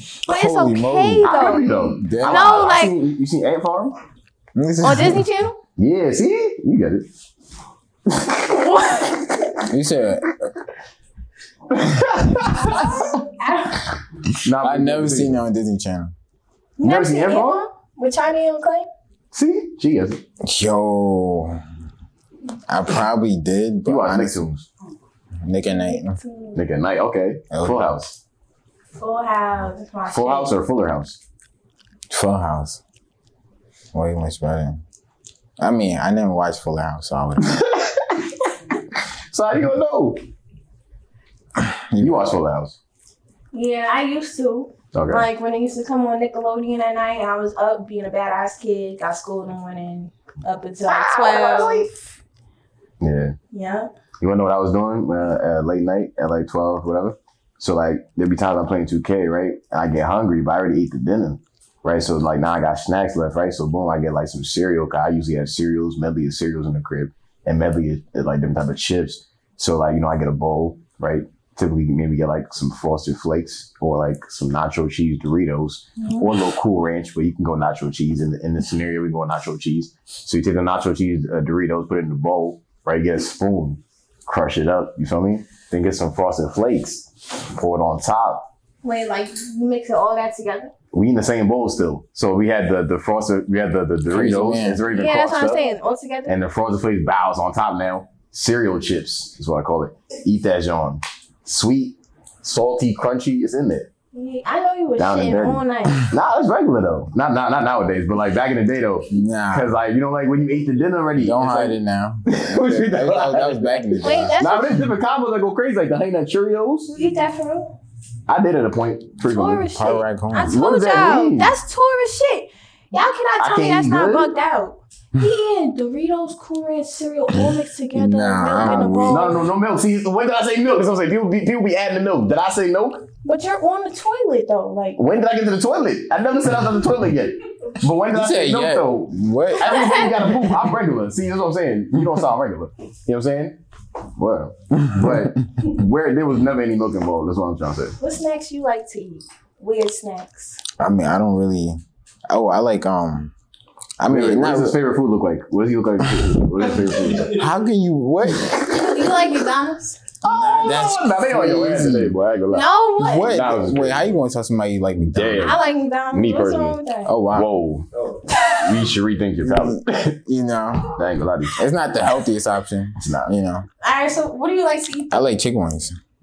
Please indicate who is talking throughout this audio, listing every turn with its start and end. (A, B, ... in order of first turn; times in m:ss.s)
0:00.2-0:03.0 A
0:00.3-0:02.7 B
0:01.2-0:04.0 C
0:04.6-0:05.3 B
0:04.8-0:05.6 A
0:05.8-0:07.1 C
0:08.1-0:09.0 C
0:08.5-0:09.3 A
0:09.6-0:10.3 B
0:11.7-0:12.9 C
0:12.4-0:13.9 A
0:14.4-0:15.4 C
0:14.6-0:16.1 B
0:16.8-0:18.9 A
0:16.8-0:17.6 C
0:19.3-0:20.2 C
0:20.4-0:21.6 B
0:22.7-0:24.5 B
0:23.9-0:24.7 C
0:25.4-0:26.2 B
0:25.6-0:26.6 A
0:26.6-0:28.2 C
0:27.5-0:28.0 B
0:29.0-0:30.6 A
0:30.1-0:31.2 C
0:32.1-0:32.8 B
0:33.9-0:34.8 B
0:35.6-0:37.7 B
0:39.3-0:40.2 C
0:41.6-0:42.3 B
0:42.0-0:42.8 C
0:43.5-0:51.9 A
0:44.9-0:45.3 C
0:50.9-0:51.9 C
0:53.0-0:53.4 C
0:53.5-0:53.9 A
0:54.2-1:28.4 C
1:16.0-1:16.3 A
1:28.8-1:30.7 A
1:30.9-1:35.7 C
1:34.1-1:34.8 B
1:34.9-1:36.4 A
1:36.2-1:43.9 C
1:44.1-1:46.1 A
1:45.0-1:56.9 C
1:49.1-1:49.7 B
1:51.2-1:54.4 B
1:54.0-1:54.9 A
1:56.9-1:57.8 A
1:58.3-1:59.7 C
1:59.2-2:09.4 A
1:59.7-2:00.6 B
2:00.4-2:01.5 C
2:03.4-2:04.3 C
2:07.5-2:09.5 B
2:09.1-2:13.1 C
2:13.2-2:15.0 A
2:15.0-2:23.6 C
2:18.1-2:20.2 B
2:19.6-2:20.3 A
2:24.2-2:28.0 C
2:28.0-2:30.6 A
2:30.8-2:33.3 B
2:34.0-2:34.8 B
2:34.0-2:37.4 C
2:37.2-2:38.8 B
2:38.7-2:40.0 A
2:40.2-2:44.2 C
2:40.2-2:42.2 B
2:42.5-2:43.4 A
2:43.0-2:45.6 B
2:45.1-2:46.8 C
2:45.4-2:47.2 A
2:47.1-2:47.5 B
2:47.3-2:47.9 C
2:48.3-2:48.7 A
2:48.4-2:50.1 C
2:49.4-2:51.0 B
2:50.9-2:51.6 C
2:51.6-2:53.7 B
2:53.0-2:53.3 C
2:53.8-2:55.4 A
2:55.1-2:56.0 B